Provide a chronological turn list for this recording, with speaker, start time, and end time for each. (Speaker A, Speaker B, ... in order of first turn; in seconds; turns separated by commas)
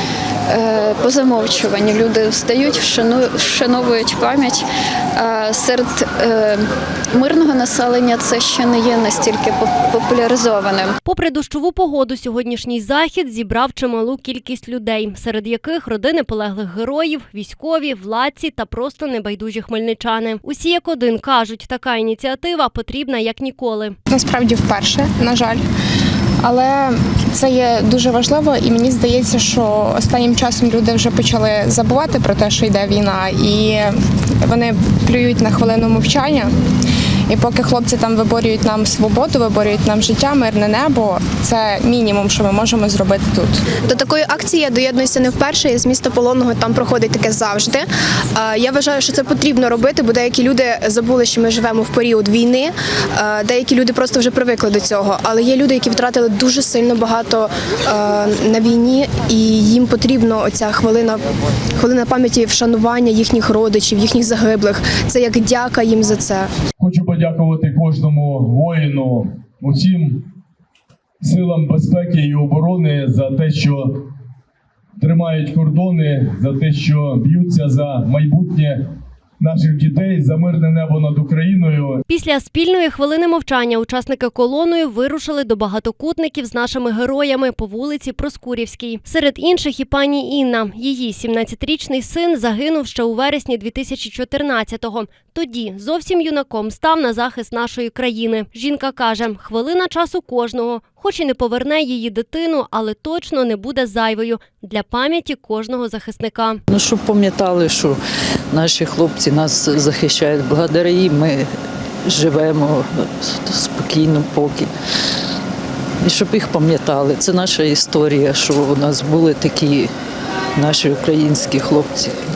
Speaker A: 0.5-10.9, Speaker B: 11.1-23.9, Speaker C: 24.1-25.6, Speaker C: 26.4-36.5, Speaker C: 37.3-43.6, Speaker D: 43.9-61.2, Speaker D: 61.8-66.5, Speaker E: 66.8-70.2, Speaker E: 71.2-73.9, Speaker E: 75.0-78.8, Speaker E: 79.4-82.0, Speaker B: 82.1-106.6, Speaker F: 106.7-108.0, Speaker F: 108.5-111.5, Speaker F: 112.0-114.7, Speaker F: 116.0-119.9, Speaker F: 120.5-122.2